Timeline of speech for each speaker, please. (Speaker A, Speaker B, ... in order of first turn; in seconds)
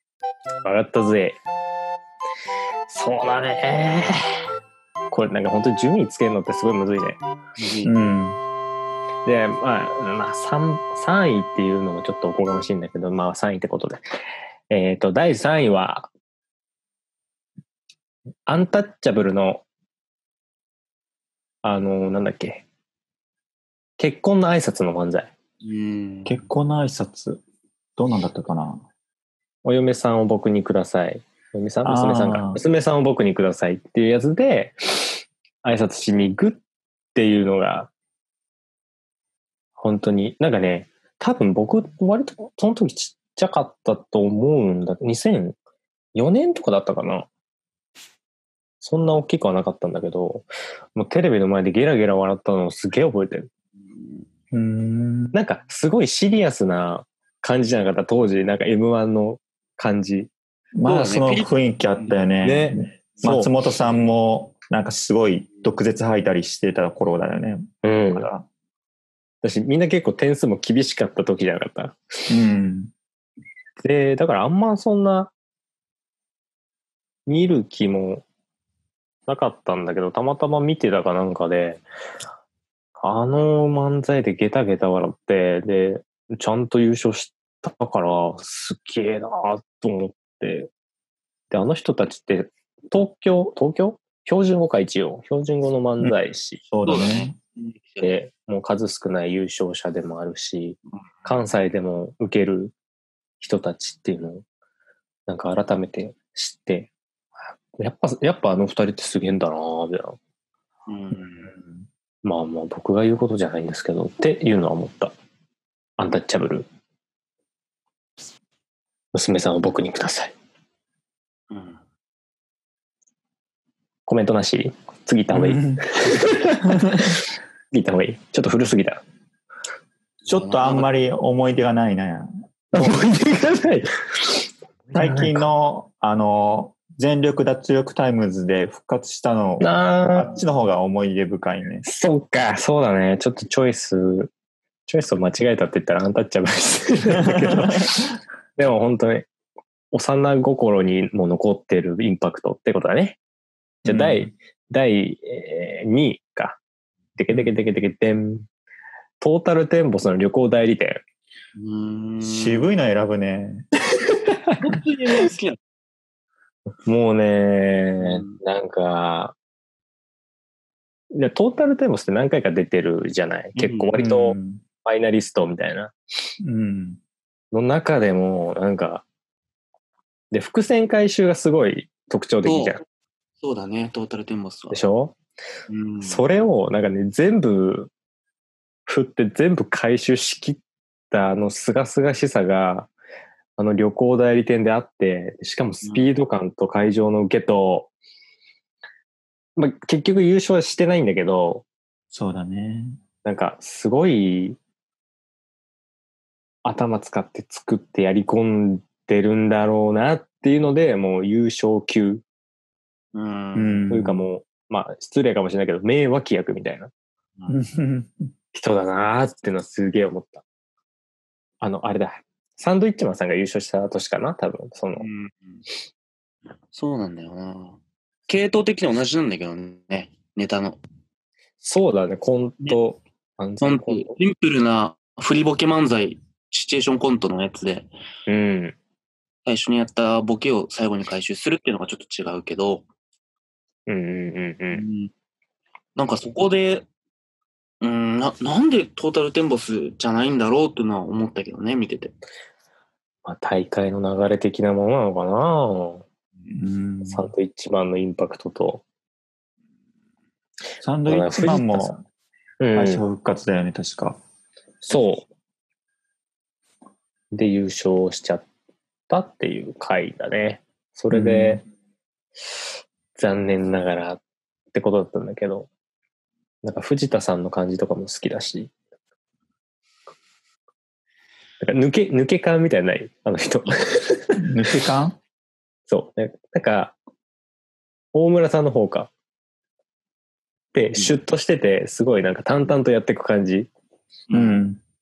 Speaker A: 0.6-1.4, 2.9-4.1, 5.1-7.2, 9.2-14.0, 14.7-16.1, 18.5-19.6, 21.6-22.6, 24.0-25.3, 29.6-36.6, 37.1-37.9, 39.8-45.6, 46.1-47.3, 48.8-53.5, 55.3-60.3, 62.4-63.5, 67.8-68.3, 69.4-72.0, 73.8-75.3, 77.3-78.2, 79.3-81.8, 83.0-90.7, 91.5-96.8, 98.0-102.8, 103.4-104.4, 105.3-106.9, 107.8-110.2, 112.2-115.1, 116.0-116.7, 119.1-120.3, 124.1-126.6, 127.7-129.0, 132.7-135.5, 139.6-140.4, 141.8-144.3, 144.9-148.0, 148.6-149.3, 149.9-153.2, 153.9-156.6, 157.2-158.4, 159.2-161.0, 166.9-169.4, 171.1-176.0, 177.5-179.1, 180.3-182.8, 184.7-185.2, 186.0-187.9, 188.9-192.9, 193.6-197.9, 199.6-201.7, 203.2-204.6, 206.7-212.2, 213.9-216.9, 218.5-220.4, 221.6-225.1, 231.6-234.2, 238.3-238.8, 243.9-244.8, 253.2-256.1, 257.1-258.8, 261.1-262.0, 262.6-263.0, 264.8-265.3, 267.3-268.5, 269.1-271.6, 273.1-274.2, 274.7-275.7, 276.6-278.7, 281.6-284.4, 285.9-287.0, 288.1-289.1, 290.7-293.7
Speaker B: 7.6-7.9, 25.6-26.4, 53.8-54.3, 60.9-62.1, 96.8-98.1, 110.9-111.5, 121.5-121.8, 130.2-130.9, 161.6-162.7, 164.6-165.6, 168.0-168.4, 173.6-174.0, 182.4-182.8, 183.4-184.8, 185.7-186.3, 195.8-196.1, 213.1-213.9, 224.9-225.7, 226.7-230.8, 233.6-237.9, 239.4-242.9, 244.7-245.1, 246.0-246.9, 247.8-252.2, 294.3-294.7
Speaker C: 7.8-8.4, 26.2-27.4, 28.0-28.8, 31.8-32.6, 54.5-55.4, 60.8-68.5, 72.3-72.9, 96.0-97.4, 111.1-111.9, 125.3-127.2, 130.3-133.1, 134.9-141.8, 147.3-148.0, 153.8-154.3, 162.2-163.7, 174.0-174.6, 176.4-177.0, 202.1-203.0, 213.6-214.3, 217.5-218.3, 256.5-257.3, 260.8-262.0, 262.7-264.2, 271.1-271.6, 284.4-285.2, 294.3-294.8